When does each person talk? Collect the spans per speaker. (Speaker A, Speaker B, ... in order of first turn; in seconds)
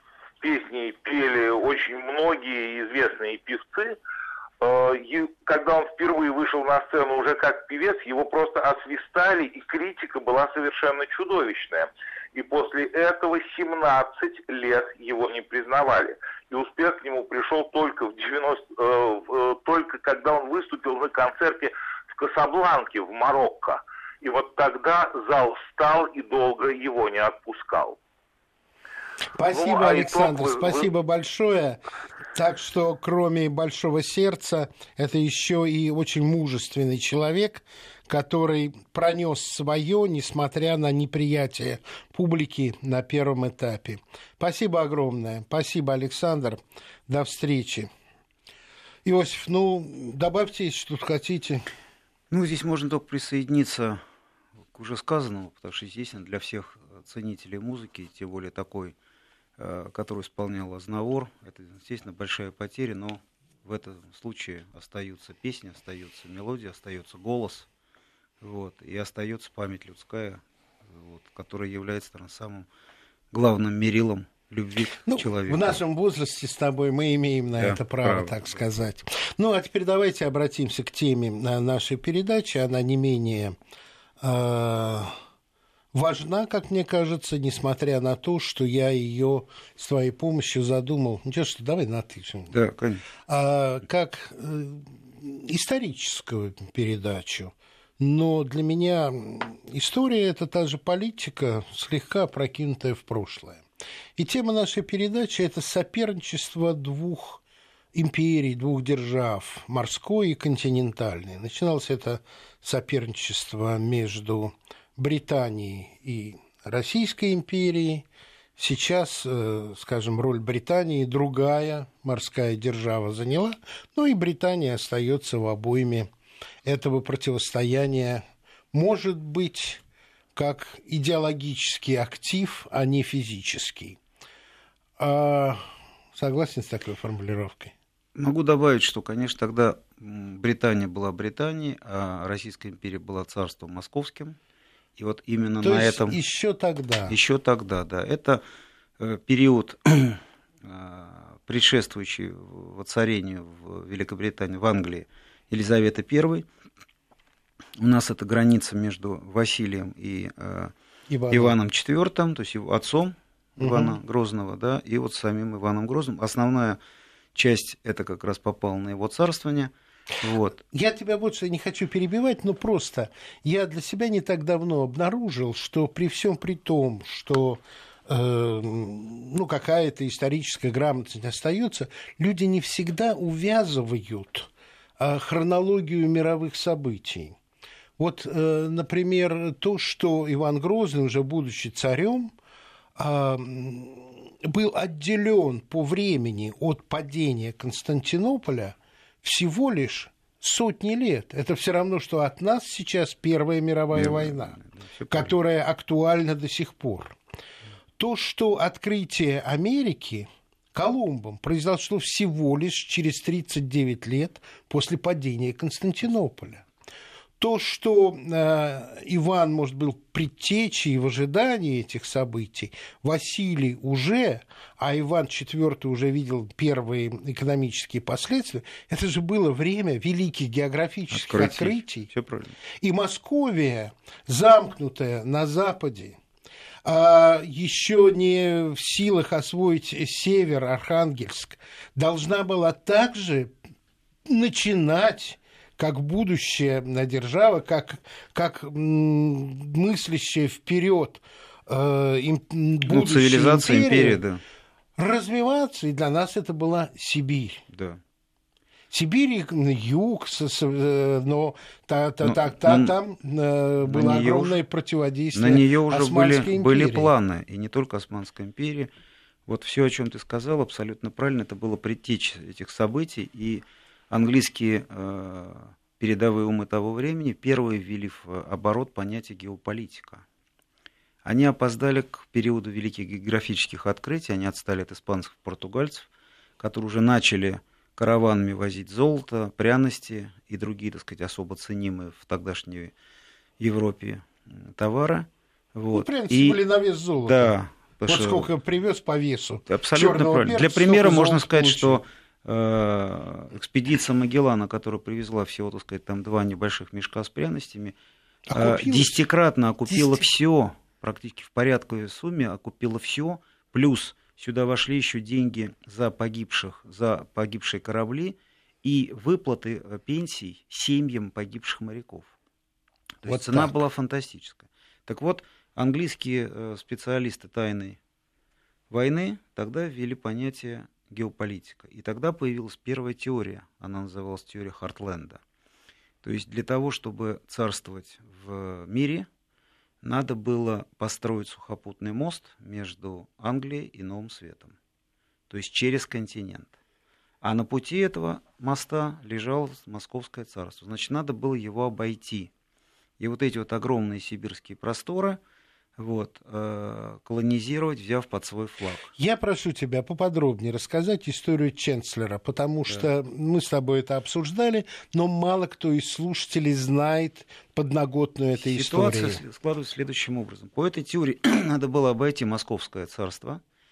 Speaker A: 0.4-4.0, 4.6-28.0, 29.5-30.9
Speaker B: 29.4-31.8, 32.3-47.9, 49.0-51.6, 75.0-83.6, 84.2-85.1, 85.9-92.5, 93.3-103.6, 104.2-107.4, 107.9-126.1, 126.6-129.8, 130.3-134.0, 135.0-135.6, 136.1-137.7, 145.6-147.2, 161.1-161.6, 163.6-164.0, 170.7-187.4, 188.0-192.3, 192.9-204.6, 205.1-207.2, 208.0-216.6, 217.4-232.1, 232.8-236.2, 236.8-243.5, 244.3-254.2, 255.0-257.6, 258.9-267.1, 295.9-297.5, 298.1-302.0, 308.5-309.2, 309.9-310.3, 323.3-323.8, 359.2-369.4
Speaker C: 52.3-54.0, 54.7-59.0, 59.6-67.7, 68.4-72.7, 73.3-75.8, 77.6-78.6, 92.5-93.0, 138.2-144.4, 145.0-146.2, 147.1-148.4, 149.0-156.4, 157.8-160.7, 161.3-166.8, 167.3-170.6, 203.9-205.3, 231.1-232.6, 252.9-254.4, 257.7-258.0, 262.2-262.9, 263.8-264.6, 265.4-268.9, 269.5-280.2, 281.2-286.1, 286.6-292.9, 293.6-296.6, 297.2-298.5, 299.7-307.9, 308.5-322.3, 323.2-328.0, 328.9-335.4, 336.2-339.3, 340.0-344.8, 345.5-346.7, 347.4-352.5, 353.2-355.4, 356.0-359.1, 368.6-373.6